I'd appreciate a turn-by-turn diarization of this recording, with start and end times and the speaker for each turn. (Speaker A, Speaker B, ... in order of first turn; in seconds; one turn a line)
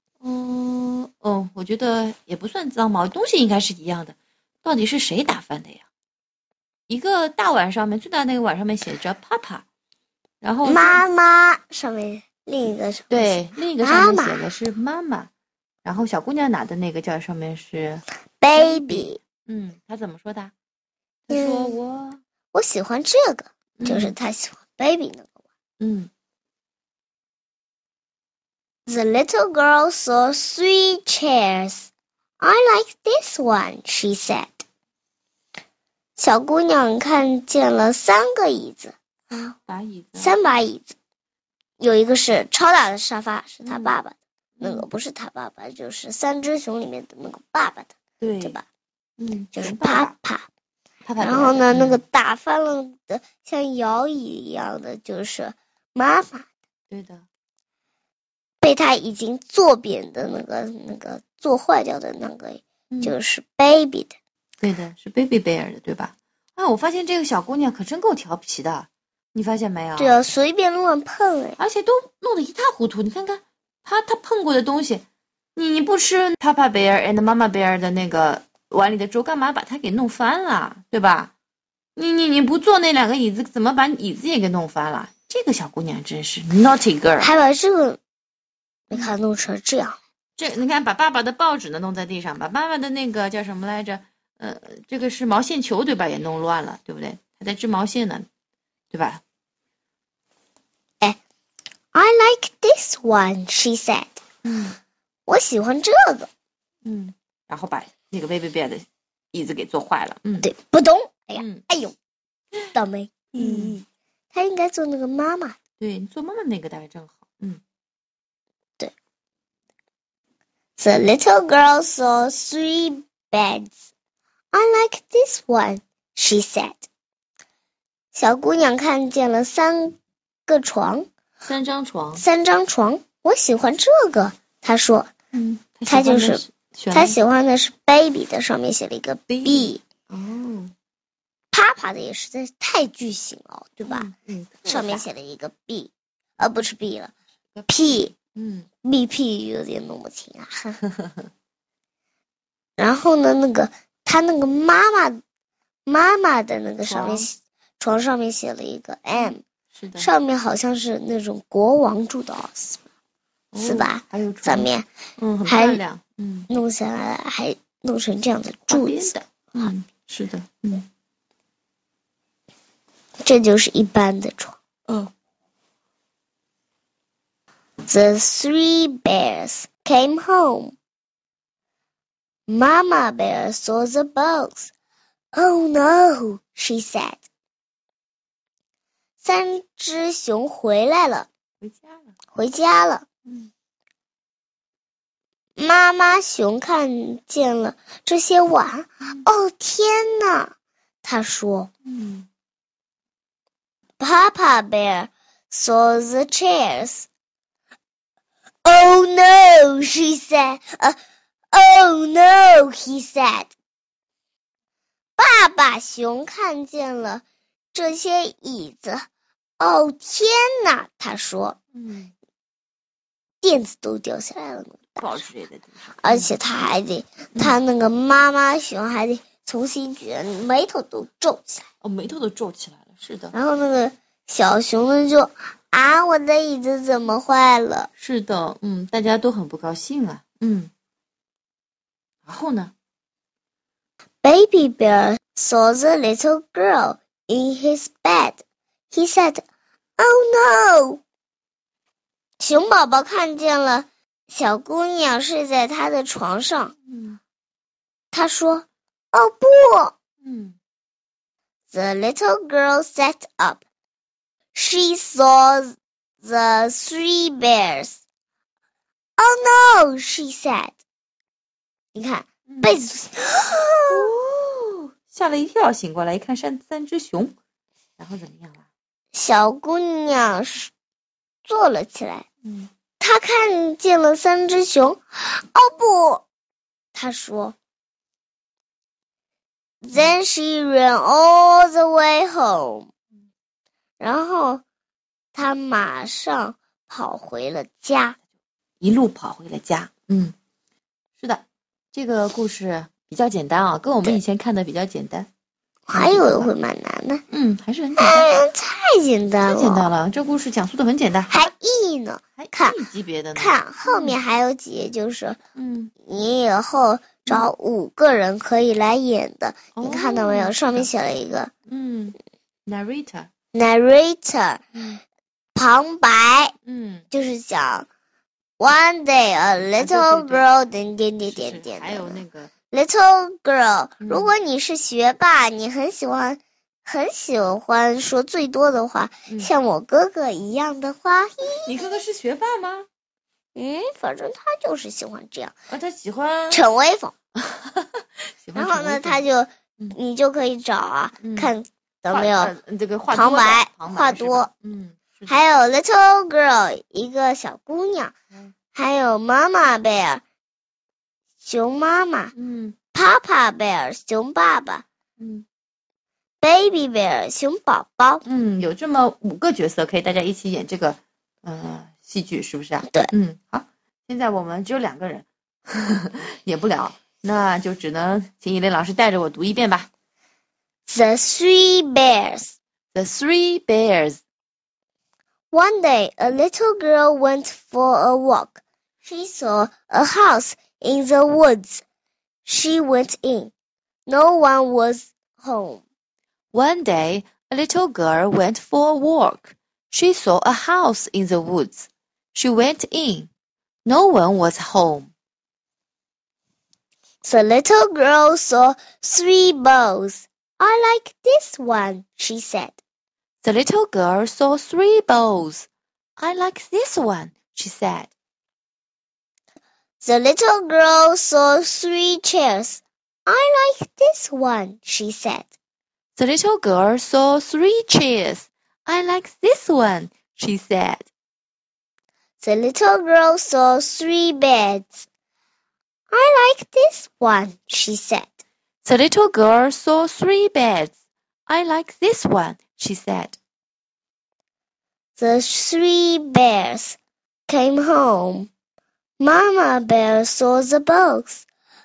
Speaker A: 0.2-5.8
Speaker A: 6.9-9.7
Speaker A: 10.4-11.0
Speaker B: 10.6-14.5
Speaker A: 13.1-15.3
Speaker A: 15.8-18.0
Speaker B: 18.4-19.2
Speaker A: 18.6-20.5
Speaker A: 21.3-22.2
Speaker B: 21.3-21.8
Speaker B: 22.5-25.3
Speaker A: 23.8-24.1
Speaker A: 25.8-26.1
Speaker B: 28.9-34.6
Speaker B: 36.2-39.5
Speaker A: 39.6-40.4
Speaker B: 40.2-41.0
Speaker B: 41.8-48.6
Speaker A: 43.6-43.9
Speaker A: 44.6-44.9
Speaker A: 48.2-48.6
Speaker A: 49.2-50.1
Speaker B: 49.5-50.5
Speaker A: 51.0-52.0
Speaker B: 51.2-56.5
Speaker A: 56.9-57.2
Speaker B: 58.6-64.2
Speaker A: 64.6-70.2
Speaker B: 70.0-71.6
Speaker A: 71.6-81.3
Speaker A: 82.0-87.3
Speaker B: 87.2-88.0
Speaker B: 88.9-90.0
Speaker A: 90.4-98.3
Speaker A: 98.9-99.2
Speaker B: 101.9-104.2
Speaker A: 104.4-104.8
Speaker B: 105.3-106.3
Speaker A: 106.8-110.5
Speaker B: 110.4-112.0
Speaker A: 111.4-111.6
Speaker B: 112.7-115.6
Speaker A: 113.3-113.8
Speaker A: 115.8-117.6
Speaker B: 120.8-123.8
Speaker B: 124.5-126.9
Speaker B: 128.1-131.1
Speaker A: 131.4-132.2
Speaker B: 132.2-135.1
Speaker A: 135.3-137.2
Speaker B: 135.9-139.8
Speaker A: 139.3-140.7
Speaker B: 141.5-144.1
Speaker A: 143.8-145.1
Speaker B: 144.7-147.1
Speaker A: 147.5-148.7
Speaker B: 147.7-148.1
Speaker B: 148.8-150.8
Speaker A: 150.9-151.2
Speaker B: 152.8-155.2
Speaker B: 155.9-159.4
Speaker A: 156.8-157.3
Speaker A: 159.2-160.1
Speaker B: 160.0-162.8
Speaker A: 163.5-166.5
Speaker B: 163.6-164.9
Speaker B: 165.5-165.8
Speaker B: 166.5-169.7
Speaker A: 168.7-170.9
Speaker B: 173.2-174.6
Speaker B: 177.9-180.8
Speaker B: 182.5-184.7
Speaker B: 185.3-187.2
Speaker B: 189.2-191.3
Speaker A: 191.6-192.1
Speaker B: 192.3-193.1
Speaker B: 195.6-201.7
Speaker A: 201.9-202.3
Speaker B: 204.0-207.1
Speaker B: 208.6-211.0
Speaker B: 211.5-213.5
Speaker B: 215.2-219.1
Speaker B: 219.6-221.6
Speaker A: 221.8-222.1
Speaker B: 223.4-225.2
Speaker A: 225.0-226.3
Speaker B: 226.0-231.7
Speaker A: 231.8-233.3
Speaker B: 233.3-237.9
Speaker A: 238.0-240.7
Speaker A: 242.2-242.7
Speaker B: 244.2-248.4
Speaker B: 248.9-249.4
Speaker B: 250.0-251.0
Speaker B: 252.4-256.8
Speaker A: 256.9-257.2
Speaker B: 258.1-259.9
Speaker A: 260.2-260.6
Speaker B: 261.7-263.6
Speaker B: 264.5-268.0
Speaker B: 269.2-270.8
Speaker B: 271.9-274.1
Speaker A: 272.5-272.9
Speaker A: 273.9-277.4
Speaker A: 278.0-278.6
Speaker B: 279.1-280.7
Speaker B: 281.4-282.2
Speaker A: 282.4-282.7
Speaker B: 283.0-286.2
Speaker B: 286.9-287.6
Speaker B: 289.8-292.9
Speaker B: 294.0-294.6
Speaker B: 295.3-298.2
Speaker A: 298.8-300.3
Speaker A: 301.2-305.3
Speaker B: 305.9-307.2
Speaker A: 305.9-306.5
Speaker A: 307.3-308.3
Speaker B: 308.0-309.9
Speaker A: 309.4-311.5
Speaker B: 311.3-312.8
Speaker A: 312.4-314.2
Speaker B: 313.4-315.4
Speaker A: 315.6-315.9
Speaker B: 316.0-321.5
Speaker A: 319.8-320.9
Speaker A: 321.7-323.3
Speaker B: 323.5-324.9
Speaker B: 325.6-326.5
Speaker A: 326.6-327.1
Speaker B: 327.1-327.9
Speaker B: 328.6-341.7
Speaker A: 329.6-330.5
Speaker A: 331.2-332.5
Speaker A: 334.0-334.3
Speaker A: 341.6-342.9
Speaker B: 343.6-345.5
Speaker A: 345.7-346.6
Speaker B: 346.5-347.1
Speaker A: 347.4-349.3
Speaker B: 348.6-352.5
Speaker A: 351.2-351.5
Speaker A: 352.1-355.4
Speaker B: 353.1-354.5
Speaker B: 355.3-358.1
Speaker B: 358.7-360.2
Speaker B: 361.4-362.3
Speaker A: 362.3-362.8
Speaker B: 362.9-364.8
Speaker A: 365.2-365.4
Speaker B: 366.4-368.2
Speaker A: 368.2-379.9
Speaker B: 380.9-382.6
Speaker A: 382.9-384.2
Speaker B: 385.5-391.8
Speaker B: 392.4-393.5
Speaker B: 394.1-395.8
Speaker A: 396.5-403.3
Speaker A: 403.9-405.1
Speaker B: 407.2-412.8
Speaker A: 413.4-418.1
Speaker B: 420.0-425.5
Speaker A: 426.1-431.1
Speaker B: 432.4-435.1
Speaker B: 436.1-438.4
Speaker A: 438.8-441.0
Speaker A: 441.5-443.4
Speaker B: 445.2-448.5
Speaker B: 449.2-451.5